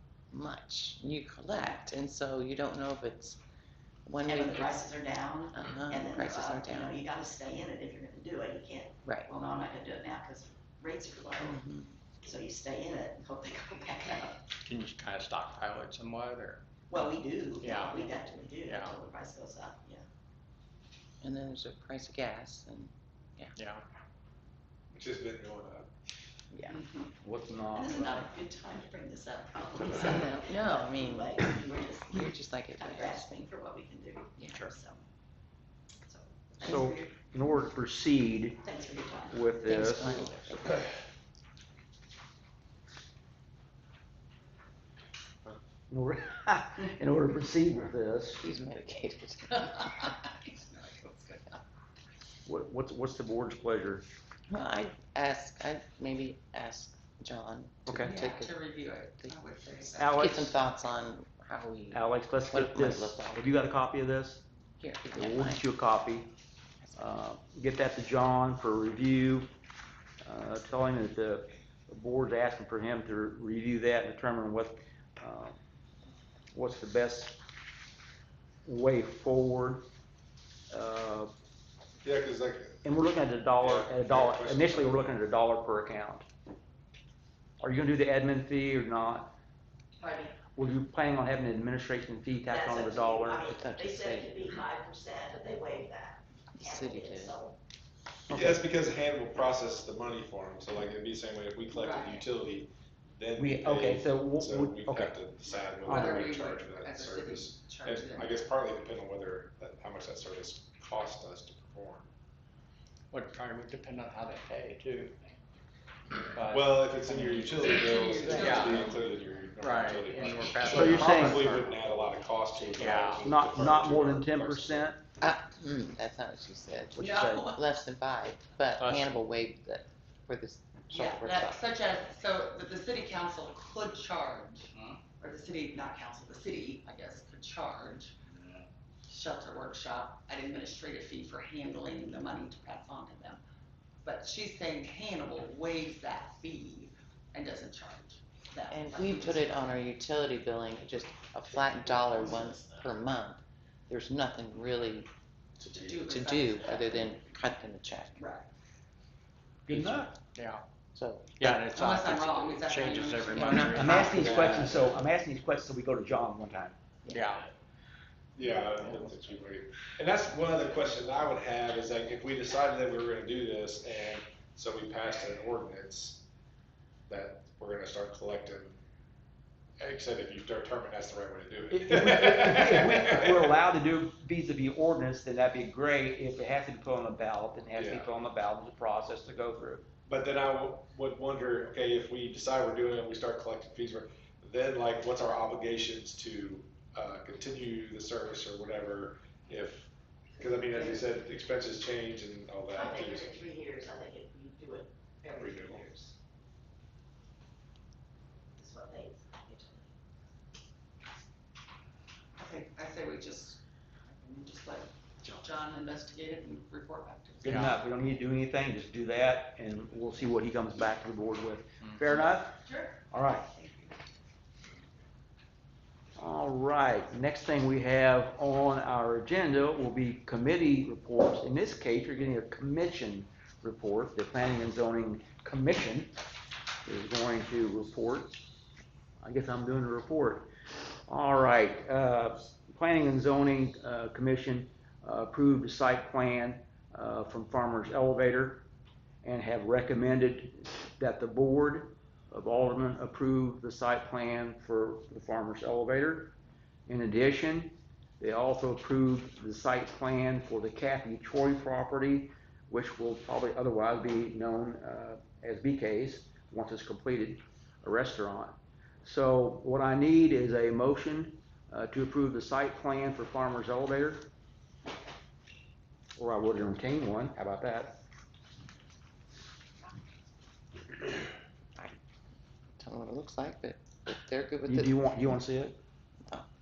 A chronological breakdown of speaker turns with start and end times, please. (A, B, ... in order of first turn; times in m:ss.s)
0:00.3-0:03.4 A
0:04.0-0:04.8 A
0:04.2-0:11.6 B
0:05.5-0:07.0 A
0:09.0-0:09.3 A
0:11.4-0:12.0 A
0:12.2-0:14.4 B
0:14.6-0:16.6 C
0:16.9-0:20.0 B
0:17.6-0:19.0 C
0:21.2-0:23.5 A
0:23.6-0:23.8 C
0:24.9-0:25.9 D
0:26.5-0:26.8 A
0:27.2-0:28.3 E
0:27.7-0:35.0 B
0:30.0-0:33.4 A
0:36.0-0:37.1 B
0:36.6-0:38.6 E
0:38.6-0:39.5 B
0:39.3-0:40.8 E
0:39.6-0:40.8 A
0:45.9-0:48.4 E
0:48.4-0:50.1 A
0:49.6-0:51.6 F
0:52.4-0:54.0 E
0:54.5-0:58.6 A
0:57.9-0:58.2 E
0:58.0-1:00.2 F
0:59.9-1:03.6 A
1:00.0-1:00.6 E
1:01.9-1:04.4 E
1:04.8-1:05.6 A
1:05.1-1:06.3 E
1:06.9-1:09.5 E
1:10.2-1:15.6 E
1:16.5-1:17.4 E
1:18.6-1:19.8 E
1:20.7-1:21.3 E
1:22.0-1:22.8 D
1:22.8-1:26.2 E
1:23.6-1:25.2 D
1:27.6-1:29.3 E
1:30.0-1:30.4 B
1:30.6-1:33.5 E
1:32.5-1:37.6 B
1:33.5-1:34.6 A
1:36.5-1:37.4 A
1:38.3-1:52.1 D
1:38.3-1:38.6 E
1:41.7-1:42.2 F
1:43.4-1:45.2 E
1:45.8-1:48.4 F
1:45.8-1:46.2 E
1:53.1-1:55.2 C
1:56.3-1:58.9 C
1:56.5-2:04.9 D
1:57.7-1:59.0 F
1:59.6-2:01.6 C
2:00.6-2:01.5 E
2:02.7-2:03.4 C
2:03.2-2:05.0 E
2:05.2-2:11.7 A
2:06.9-2:07.6 E
2:07.0-2:07.6 F
2:08.8-2:09.2 C
2:10.9-2:18.1 F
2:19.1-2:23.4 F
2:24.0-2:29.5 F
2:28.7-2:35.1 A
2:35.6-2:37.2 F
2:36.1-2:38.2 A
2:38.2-2:38.5 F
2:39.7-2:40.1 E
2:39.7-2:40.1 A
2:40.3-2:40.6 C
2:40.9-2:41.6 A
2:41.4-2:44.8 C
2:41.7-2:44.4 F
2:43.5-2:44.7 A
2:43.7-2:46.8 E
2:47.1-2:47.5 C
2:48.4-2:56.2 D
2:57.1-2:58.8 D
2:59.8-3:03.5 D
3:01.7-3:09.8 E
3:07.7-3:08.1 D
3:10.1-3:23.3 D
3:20.6-3:21.0 B
3:22.7-3:26.1 B
3:25.2-3:25.9 D
3:28.6-3:29.9 B
3:32.4-3:37.7 F
3:37.4-3:43.5 E
3:37.4-3:37.7 C
3:42.6-3:43.0 B
3:46.2-3:56.1 E
3:56.8-3:58.4 E
3:59.2-4:00.5 E
4:01.1-4:08.6 E
4:09.2-4:16.3 E
4:16.9-4:34.3 E
4:36.2-4:38.0 E
4:42.8-4:45.4 A
4:44.6-4:45.8 E